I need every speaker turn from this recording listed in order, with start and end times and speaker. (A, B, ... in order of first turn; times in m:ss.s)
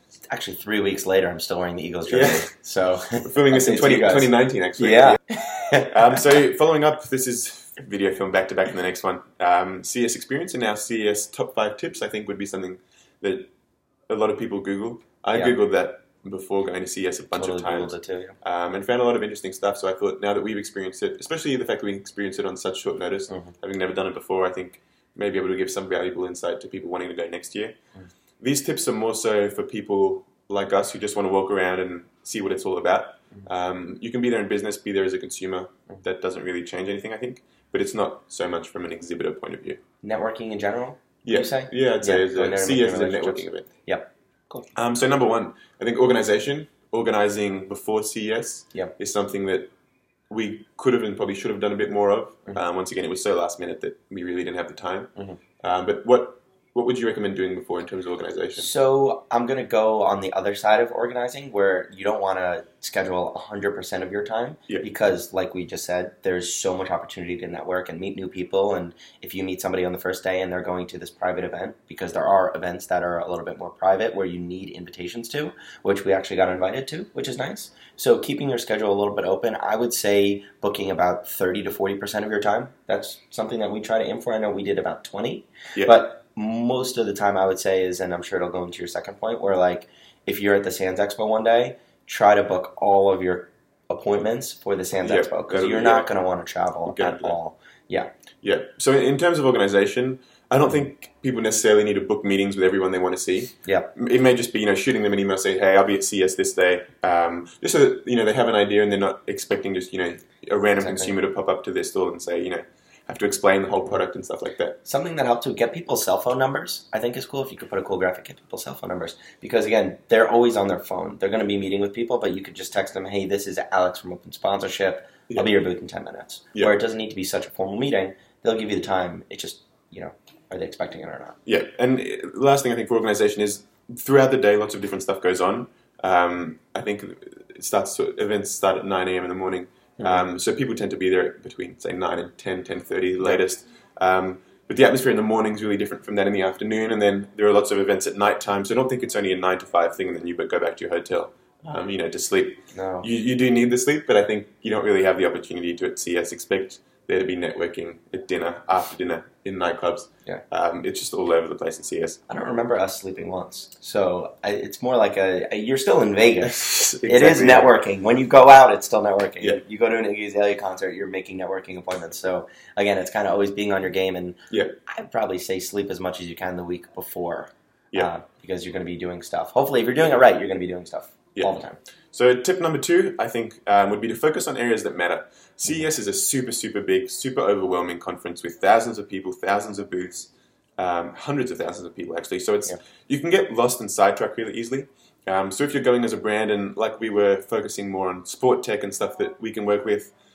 0:00.3-0:06.0 A
0:02.1-0:02.5 B
0:03.2-0:05.2 B
0:05.9-0:13.5 B
0:14.1-0:27.8 B
0:17.3-0:18.4 A
0:23.3-0:23.5 A
0:28.4-0:39.8 B
0:40.0-0:44.6 A
0:41.2-0:43.7 B
0:44.7-0:49.7 B
0:50.3-0:55.1 B
0:55.6-0:58.7 B
0:58.6-1:38.1 A
1:35.0-1:36.1 B
1:36.9-1:37.4 B
1:38.4-1:54.8 B
1:43.6-1:43.9 A
1:50.8-1:51.1 A
1:54.8-2:11.4 A
2:05.3-2:05.6 B
2:11.4-2:42.2 B
2:32.7-2:33.1 A
2:42.3-3:01.8 A
2:46.4-2:47.7 B
3:02.1-3:20.1 B